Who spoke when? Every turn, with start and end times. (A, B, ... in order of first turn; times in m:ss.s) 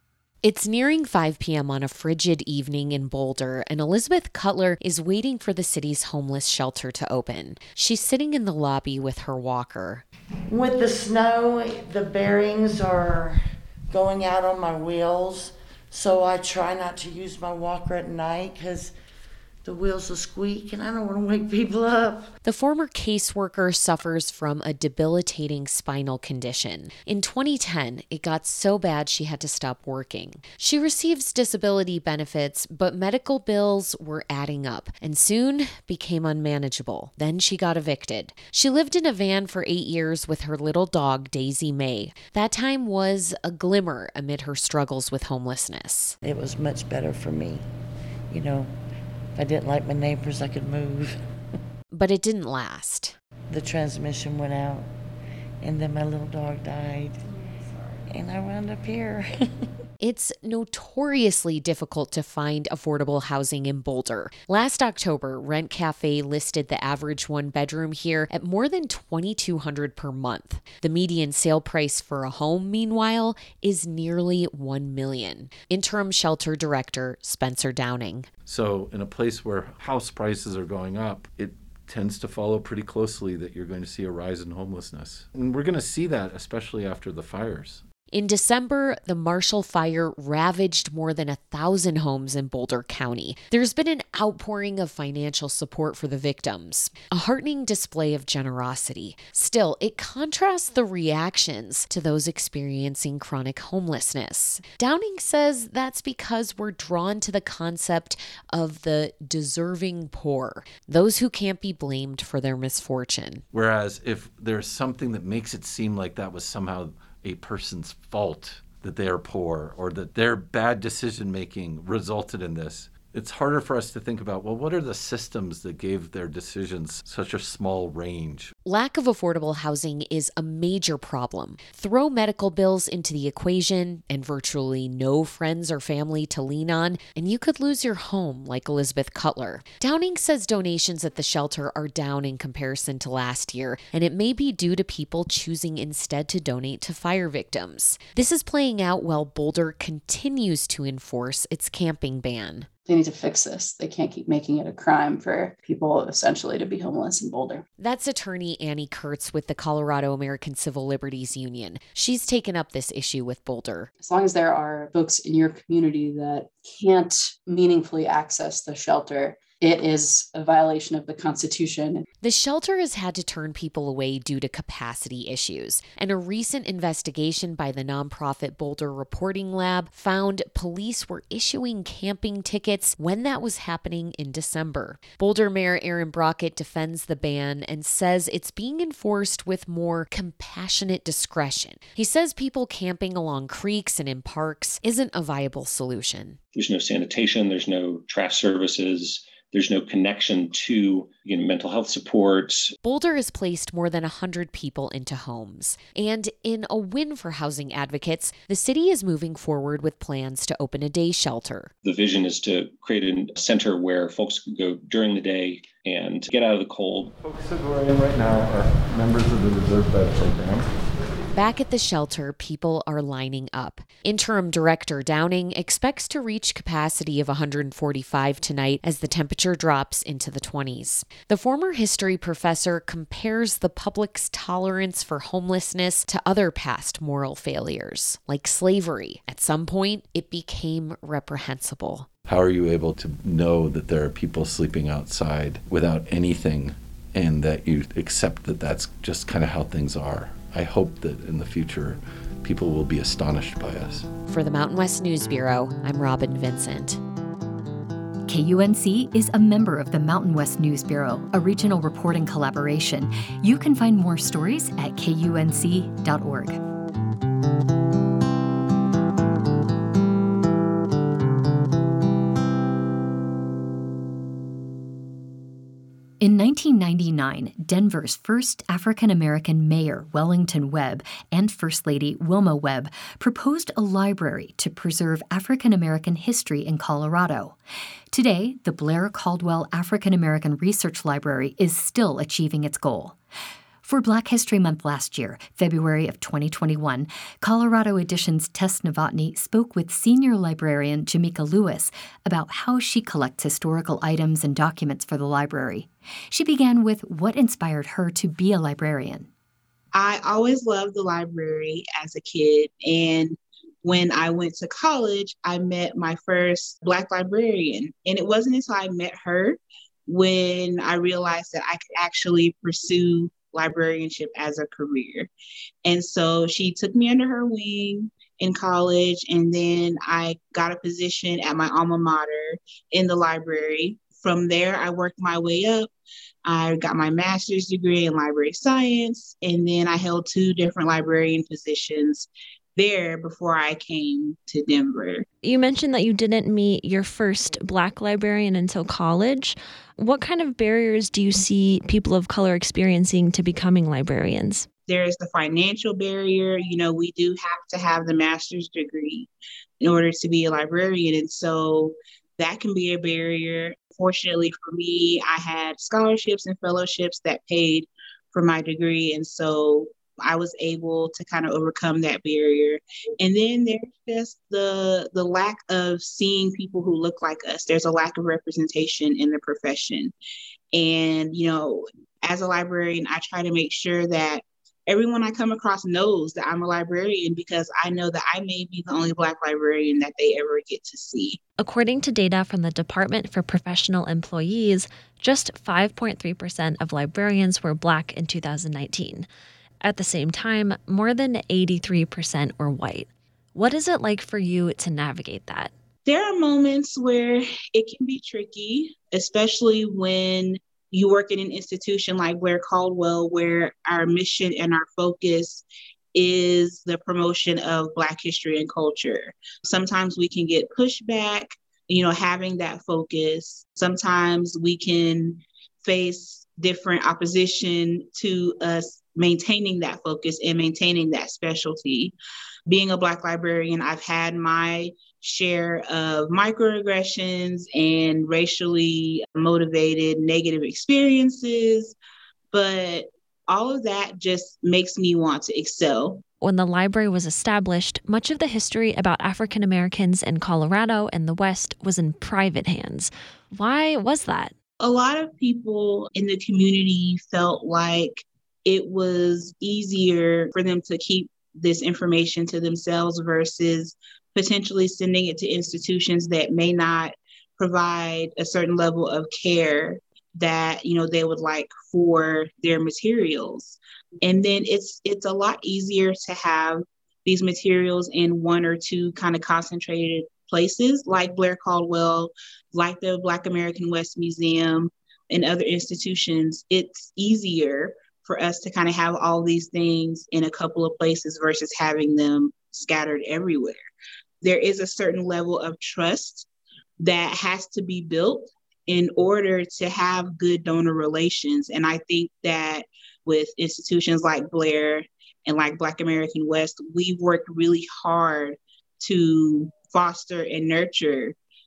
0:00.4-0:10.0 A
0:10.5-0:18.9 B
0:19.6-0:22.3 B
0:22.4-0:46.2 A
0:46.2-0:47.7 B
0:48.3-0:48.7 B
0:49.4-0:51.2 B
0:51.9-0:53.2 A
0:53.5-0:54.9 B
0:55.6-0:59.3 B
1:00.0-1:18.3 A
1:18.5-1:27.8 C
1:28.1-1:53.4 A
1:53.5-2:08.5 C
2:08.7-2:32.7 A
2:32.9-2:37.6 D
2:37.8-2:43.9 A
2:44.0-2:52.1 D
2:52.2-3:16.4 A
3:16.5-3:22.8 E
3:22.8-3:31.7 A
3:31.8-3:37.1 E
3:37.2-3:40.7 C
3:41.3-4:02.1 A
4:02.3-4:14.1 C
4:14.3-4:17.0 A
4:18.3-4:26.6 F
4:36.2-4:47.6 F
4:48.1-4:53.2 F
4:53.8-5:09.3 F
5:09.9-5:25.3 G
5:25.8-5:35.9 G
5:36.5-5:45.3 G
5:45.4-5:54.7 H
5:54.9-5:59.3 G
5:59.8-6:20.1 G
6:20.7-6:31.4 G
6:31.6-6:39.3 H
6:39.8-6:45.7 H
6:46.1-6:55.6 G
6:56.2-7:12.1 G
7:12.7-7:22.0 G
7:22.5-7:26.2 G
7:26.4-7:34.5 H
7:34.8-8:13.8 G
8:14.4-8:16.5 G
8:17.0-8:31.4 G